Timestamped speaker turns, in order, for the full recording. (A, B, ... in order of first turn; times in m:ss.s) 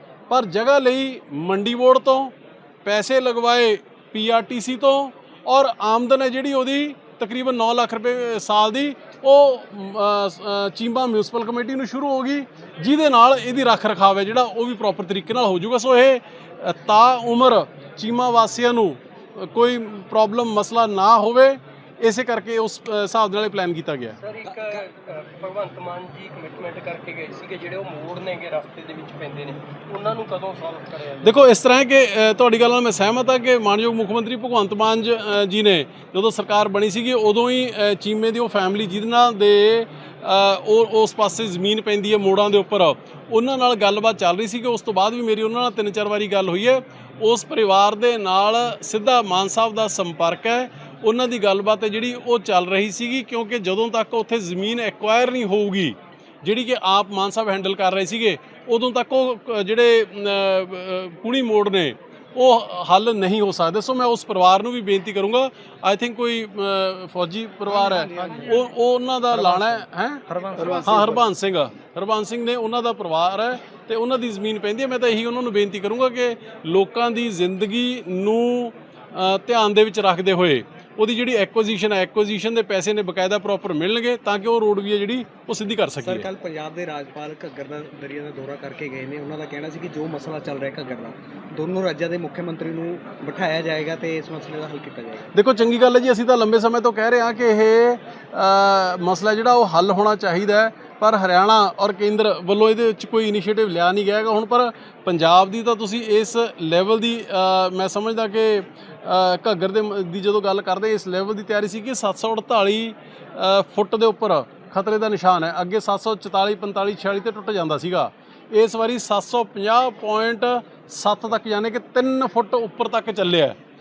0:00.3-0:24.1 A
0:24.2-0:31.4 B
0:24.4-0:24.8 C
0:31.2-1:10.2 A
1:07.7-1:08.7 C
1:09.3-1:11.2 C
1:10.7-1:26.3 A
1:26.0-1:35.3 C
1:35.3-2:03.6 A